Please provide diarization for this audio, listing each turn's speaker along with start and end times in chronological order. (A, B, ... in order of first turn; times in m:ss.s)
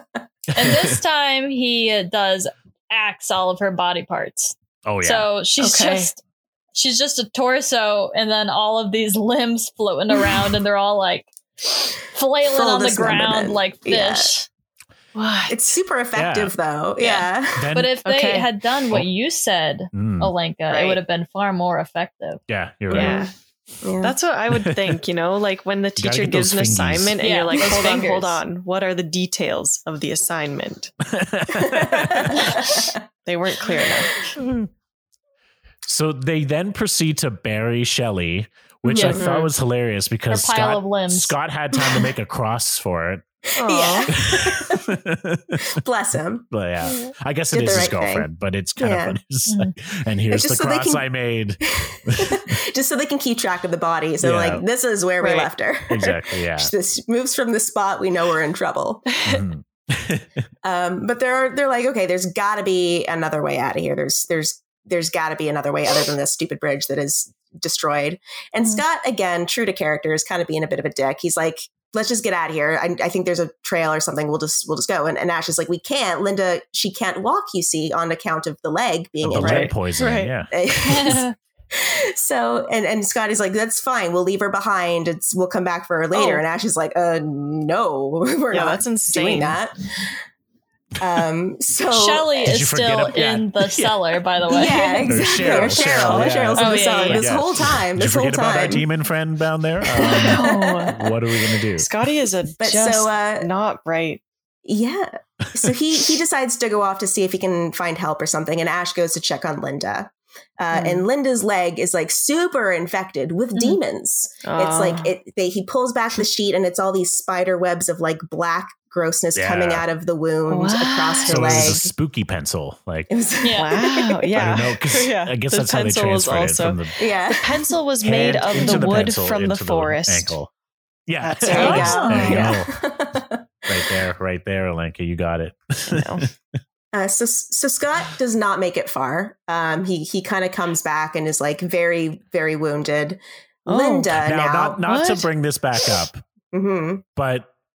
0:00.5-0:01.0 A
0:00.6-0:06.2 B
0:04.8-0:05.3 A
0:05.6-0:06.1 C
0:06.8-0:11.3 B
0:11.9-0:14.5 B
0:12.4-0:14.3 D
0:15.2-0:15.7 C
0:15.5-0:17.7 D
0:16.2-0:16.5 A
0:17.0-0:22.4 B
0:17.6-0:18.0 A
0:18.0-0:18.5 C
0:19.9-0:20.3 A
0:20.7-0:21.0 C
0:22.5-0:23.3 A
0:22.9-0:23.3 D
0:22.9-0:23.3 C
0:23.8-0:24.2 D
0:24.0-0:30.9 C
0:24.6-0:24.9 A
0:26.0-0:27.2 A
0:27.2-0:28.4 B
0:31.0-0:32.4 A
0:31.5-0:33.0 D
0:33.2-0:34.3 C
0:35.9-0:43.3 A
0:38.8-0:39.2 B
0:39.0-0:39.4 D
0:39.2-0:39.5 C
0:40.3-0:41.4 B
0:43.6-0:44.2 C
0:43.6-0:44.8 D
0:44.1-0:45.7 A
0:45.6-0:46.5 D
0:46.5-0:52.6 A
0:47.5-0:49.2 D
0:49.5-0:49.7 B
0:50.3-0:51.0 D
0:51.6-0:59.1 D
0:54.2-0:54.6 A
0:55.2-0:55.5 C
0:55.9-0:56.7 A
0:59.1-0:59.4 C
0:59.2-1:00.3 A
1:00.6-1:19.8 D
1:19.2-1:20.5 A
1:19.4-1:20.3 C
1:20.5-1:30.1 D
1:20.8-1:21.4 B
1:26.1-1:26.4 C
1:28.5-1:29.6 C
1:31.0-1:32.5 D
1:31.9-1:37.3 B
1:32.4-1:34.0 A
1:34.5-1:38.9 D
1:35.1-1:41.9 A
1:40.0-1:41.1 D
1:40.0-1:41.0 C
1:41.8-1:44.2 C
1:42.6-1:43.5 D
1:44.6-2:01.9 D
1:50.7-1:51.1 C
1:54.4-1:55.1 C
1:59.4-1:59.8 A
2:00.5-2:01.8 C
2:01.3-2:03.1 A
2:03.1-2:04.3 D
2:03.4-2:03.8 B
2:03.6-2:10.4 C
2:04.4-2:07.0 A
2:07.0-2:07.6 D
2:08.0-2:10.5 A
2:11.1-2:12.8 A
2:11.2-2:12.5 C
2:11.4-2:13.7 D
2:11.6-2:12.4 B
2:13.7-2:16.3 A
2:15.9-2:16.3 C
2:16.9-2:24.8 D
2:23.7-2:24.2 C
2:24.2-2:26.2 A
2:24.8-2:25.3 C
2:26.5-2:27.0 D
2:27.2-2:27.5 A